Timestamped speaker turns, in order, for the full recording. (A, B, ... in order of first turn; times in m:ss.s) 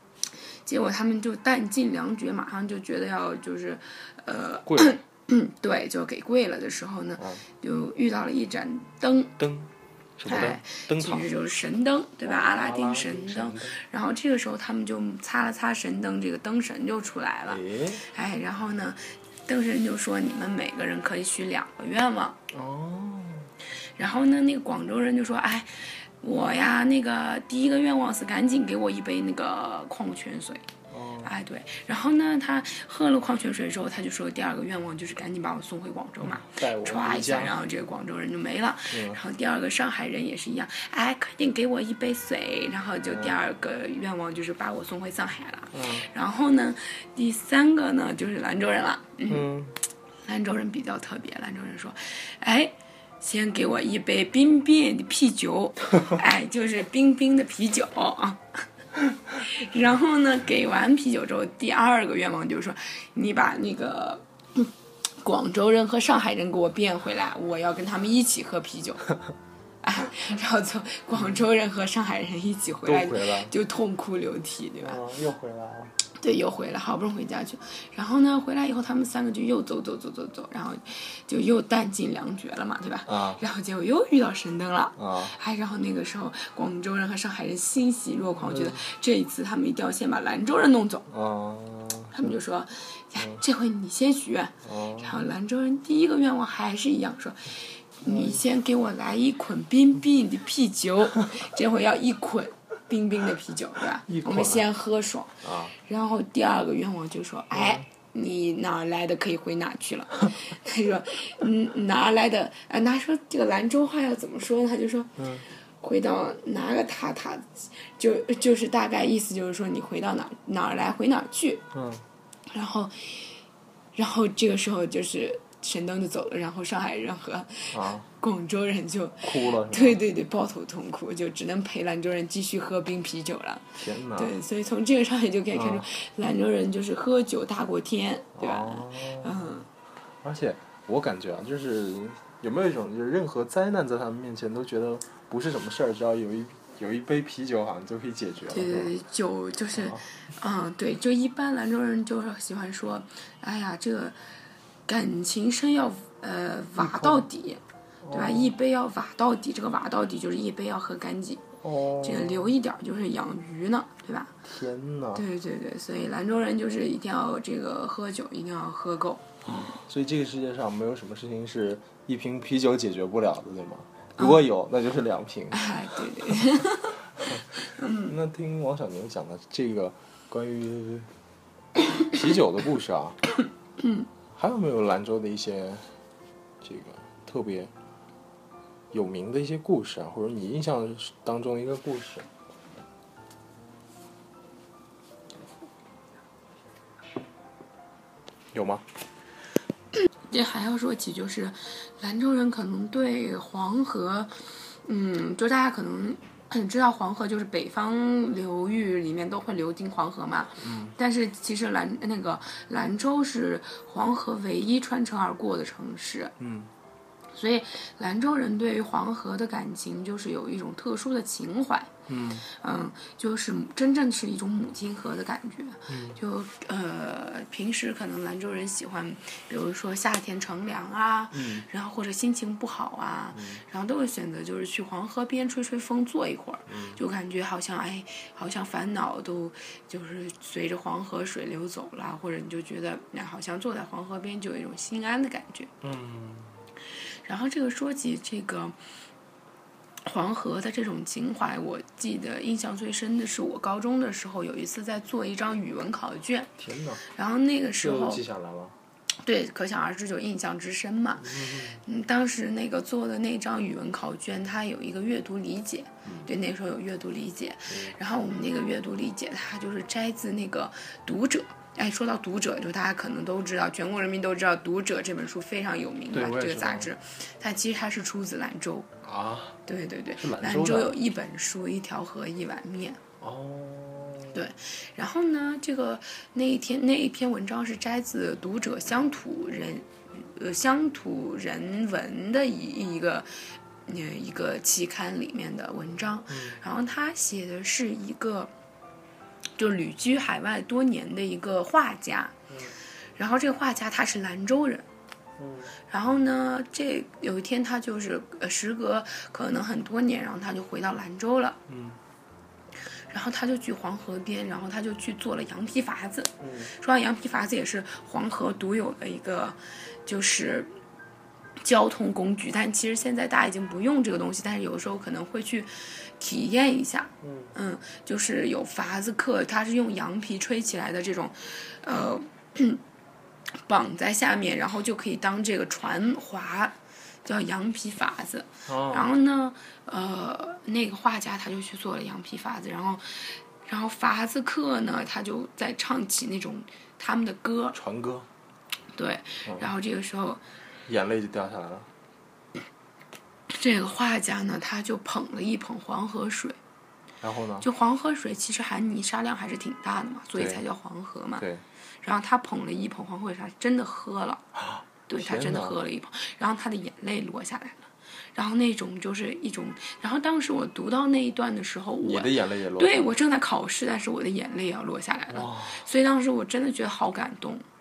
0:00.6-0:09.4 A
0:04.7-0:05.0 B
0:07.2-0:07.4 B
0:09.4-0:11.3 B
0:10.3-0:22.4 A
0:12.2-0:13.8 B
0:17.5-0:18.0 B
0:22.5-0:23.5 B
0:24.0-0:30.7 A
0:30.9-0:31.3 B
0:31.2-0:49.5 A
0:36.2-0:37.6 B
0:38.9-0:39.2 B
0:43.1-0:43.4 B
0:45.7-0:46.1 B
0:49.3-0:49.8 B
0:50.3-0:58.6 A
0:59.4-1:09.1 A
1:09.8-1:15.0 A
1:11.2-1:11.4 B
1:12.8-1:13.5 B
1:14.8-1:16.0 B
1:16.2-1:31.1 A
1:23.1-1:23.4 B
1:25.0-1:25.4 B
1:28.4-1:28.8 B
1:31.1-1:32.4 B
1:32.1-1:55.2 A
1:34.6-1:35.3 B
1:38.0-1:38.4 B
1:44.1-1:44.7 B
1:45.4-1:45.7 B
1:47.5-1:47.8 B
1:55.2-1:55.5 B
1:55.8-2:01.6 A
2:01.7-2:02.0 B
2:02.5-2:03.4 A
2:04.0-2:19.7 A
2:07.7-2:08.1 B
2:09.2-2:10.0 B
2:13.8-2:14.4 B
2:15.5-2:15.9 B
2:18.4-2:19.6 B
2:20.2-2:28.9 B
2:28.5-2:34.2 A
2:29.7-2:30.0 B
2:34.9-2:41.4 A
2:36.8-2:37.3 B
2:38.0-2:38.6 B
2:41.6-2:42.5 B
2:42.0-2:44.4 A
2:44.5-2:45.3 B
2:45.2-2:49.7 A
2:49.4-2:56.4 B
2:55.5-2:58.1 A
2:57.2-3:01.1 B
3:02.0-3:03.2 B
3:04.3-3:05.8 B
3:06.6-3:07.7 B
3:08.9-3:12.3 B
3:18.5-3:18.8 B
3:20.3-3:36.4 A
3:30.6-3:31.0 B
3:36.4-3:36.7 B
3:37.3-3:41.9 A
3:42.1-3:42.5 B
3:42.5-4:05.7 A
3:45.9-3:46.2 B
3:51.3-3:51.7 B
3:53.3-3:53.6 B
3:56.7-3:57.0 B
4:05.8-4:06.6 B
4:07.2-4:08.8 A
4:10.0-4:16.5 A
4:16.6-4:17.0 B
4:17.1-4:18.2 A
4:17.8-4:18.8 B
4:19.2-4:38.9 A
4:21.2-4:21.8 B
4:26.0-4:26.3 B
4:27.7-4:28.0 B
4:36.1-4:36.9 B
4:39.0-4:39.6 B
4:39.7-4:43.0 A
4:40.2-4:41.0 B
4:43.2-4:44.4 B
4:44.3-4:58.5 A
4:56.3-4:56.6 B
4:59.6-5:02.4 A
5:02.5-5:02.8 B
5:03.2-5:04.9 A
5:05.4-5:05.7 B
5:05.9-5:11.6 A
5:11.7-5:12.0 B
5:13.1-5:20.7 A
5:16.4-5:16.7 B
5:21.6-5:32.8 A
5:27.2-5:27.5 B
5:33.6-5:47.8 A
5:38.7-5:39.1 B
5:47.7-5:48.3 B
5:48.9-5:50.4 A
5:49.4-5:49.7 B
5:50.9-5:51.9 B
5:53.5-5:56.6 A
5:57.2-5:57.7 B
5:57.6-6:01.5 A
6:00.4-6:00.6 B
6:01.4-6:01.6 B
6:02.0-6:04.5 A
6:04.5-6:05.8 B
6:05.1-6:17.6 A
6:12.0-6:13.1 B
6:15.3-6:15.9 B